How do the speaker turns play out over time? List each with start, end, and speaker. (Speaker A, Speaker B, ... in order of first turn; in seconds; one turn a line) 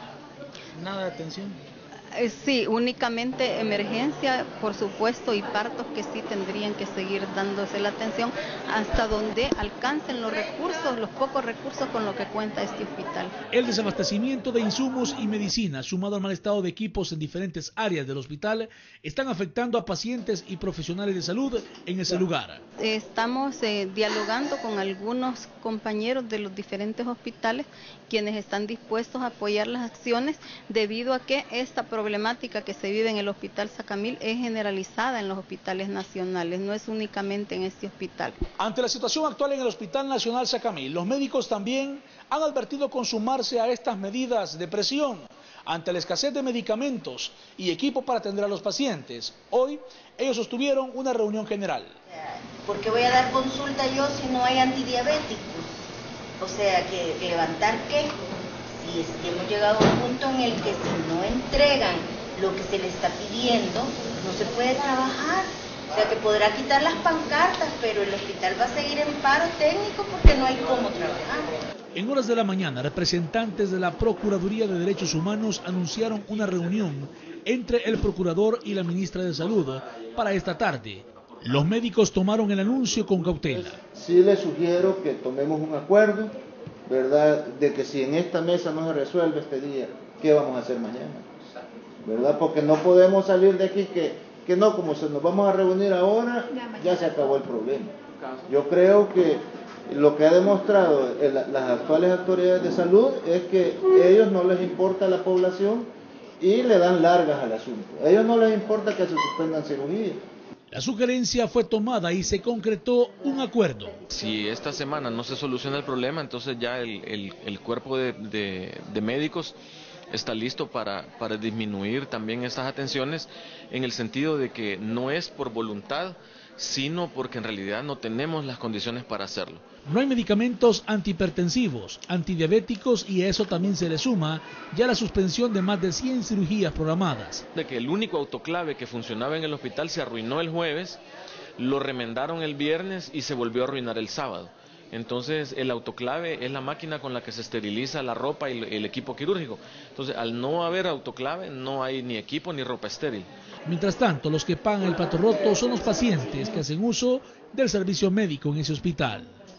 Speaker A: 0.7-1.6
Speaker B: 2.1-13.3
Speaker A: 13.5-22.6
Speaker B: 22.8-38.4
Speaker A: 38.6-52.0
Speaker C: 52.1-55.8
Speaker C: 56.4-58.1
Speaker C: 58.7-71.6
Speaker A: 71.9-83.8
Speaker D: 83.9-86.3
Speaker D: 86.9-91.3
Speaker D: 92.0-97.9
Speaker D: 98.5-110.2
Speaker A: 110.7-114.0
Speaker E: 114.1-119.5
Speaker E: 120.1-129.6
Speaker A: 129.8-137.4
Speaker E: 137.5-141.0
Speaker E: 141.6-153.3
Speaker A: 153.7-159.3